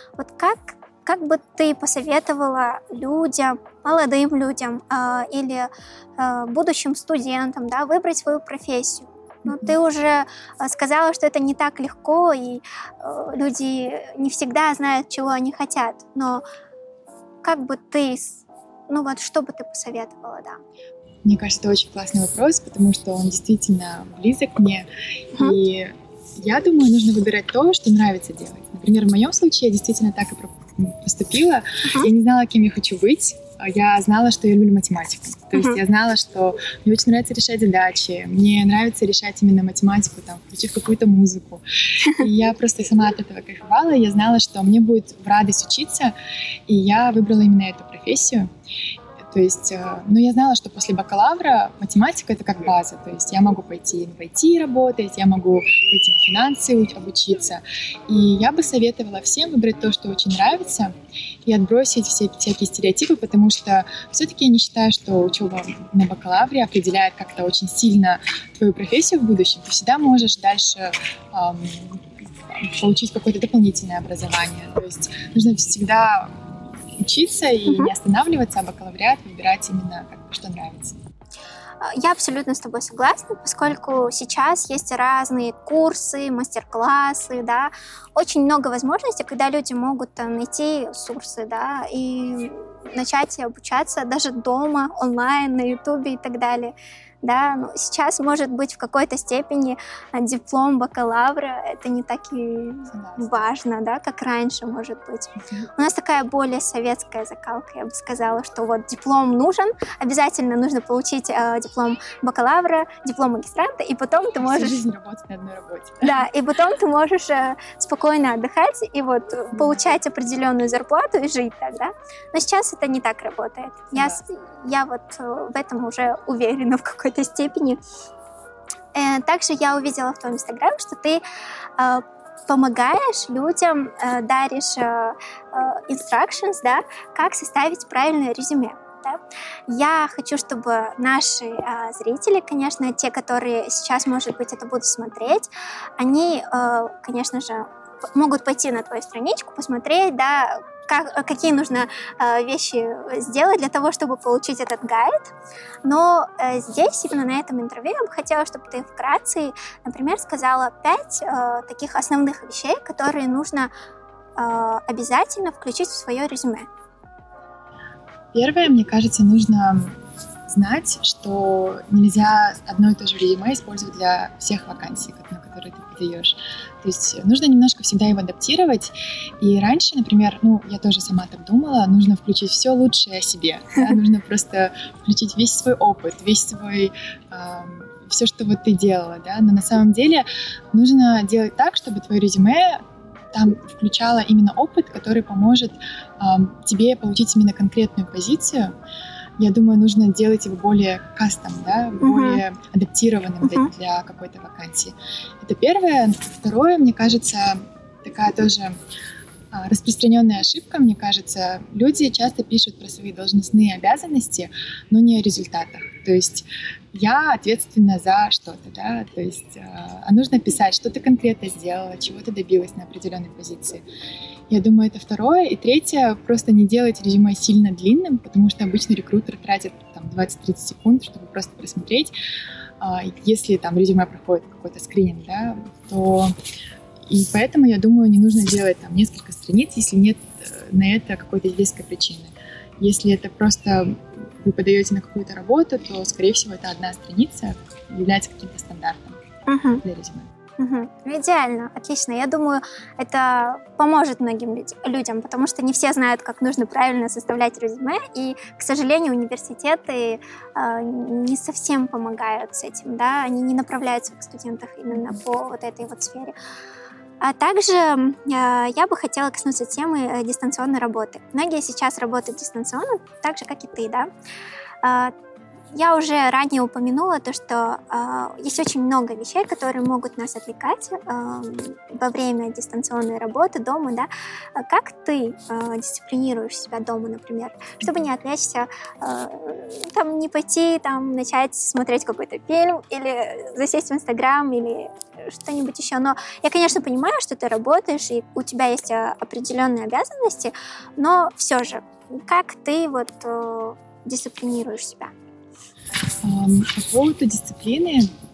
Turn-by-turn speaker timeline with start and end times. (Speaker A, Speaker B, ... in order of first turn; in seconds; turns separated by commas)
Speaker A: 0.2-16.4, Speaker B: 9.5-9.8, Speaker A: 17.4-20.6, Speaker B: 21.2-46.1, Speaker B: 46.7-48.5, Speaker B: 49.2-81.0, Speaker A: 81.8-114.8, Speaker B: 102.9-103.5, Speaker B: 114.4-116.3, Speaker A: 116.0-127.8, Speaker B: 119.5-120.0, Speaker B: 123.9-124.2, Speaker A: 128.9-131.2, Speaker A: 131.8-155.3, Speaker A: 155.8-163.7, Speaker A: 164.4-166.7, Speaker B: 168.3-198.7, Speaker B: 199.4-208.8, Speaker A: 202.0-202.4, Speaker A: 203.4-203.7, Speaker B: 209.5-223.8, Speaker B: 224.5-232.1, Speaker B: 232.8-236.3, Speaker B: 237.1-249.2, Speaker A: 249.5-249.8, Speaker B: 249.8-250.3, Speaker A: 250.6-266.4, Speaker A: 267.2-274.1, Speaker A: 274.8-275.1, Speaker A: 275.7-305.1, Speaker B: 306.2-308.1